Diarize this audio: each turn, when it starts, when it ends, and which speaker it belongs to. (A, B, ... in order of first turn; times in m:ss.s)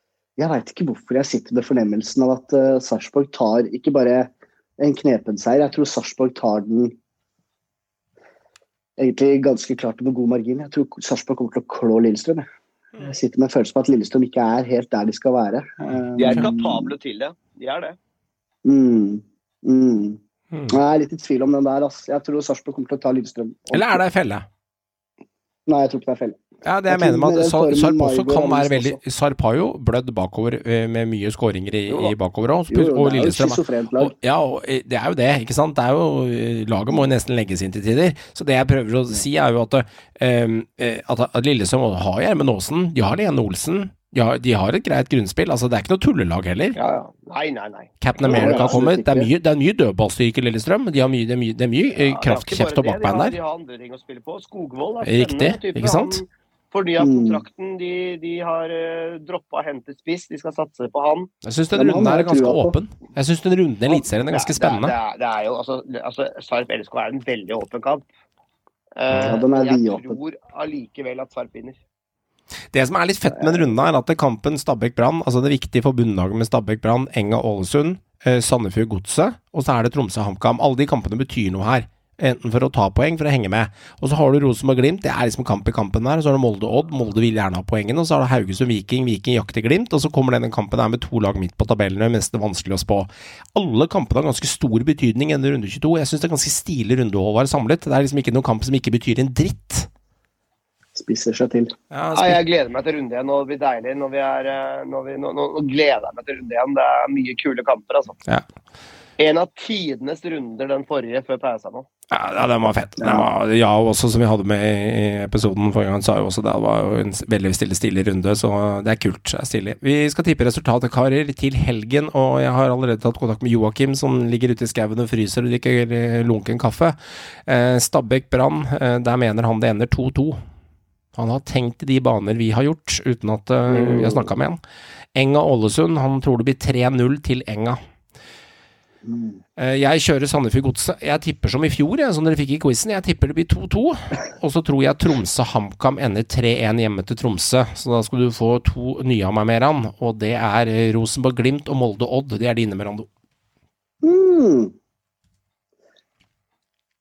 0:00.4-0:07.0 A
0:09.0-0:12.5 A
0:13.0-0:16.9 A
0:15.9-0:16.5 B
0:16.2-0:18.0 C
0:18.6-0:24.0 A
0:20.5-0:20.8 B
0:23.7-0:24.4 B
0:25.7-0:29.0 A
0:26.6-0:46.8 B
0:32.7-0:34.1 A
0:46.7-0:48.7 C
0:48.0-0:53.4 B
0:48.2-0:49.3 A
0:51.9-1:01.3 C
0:55.0-0:56.2 B
0:57.0-0:57.4 A
1:01.4-1:04.9 B
1:01.7-1:02.7 A
1:04.3-1:08.0 C
1:09.0-1:11.8 C
1:09.1-1:09.4 B
1:09.2-1:10.2 A
1:12.7-1:39.9 B
1:13.3-1:13.7 A
1:40.9-1:41.7 A
1:41.9-1:42.4 B
1:42.1-1:48.2 C
1:49.2-1:51.9 C
1:52.1-2:10.4 B
1:53.0-1:53.2 A
2:11.1-2:14.6 B
2:13.7-2:14.2 A
2:15.1-2:17.8 B
2:19.0-2:19.4 A
2:19.6-2:33.1 B
2:34.0-2:34.7 A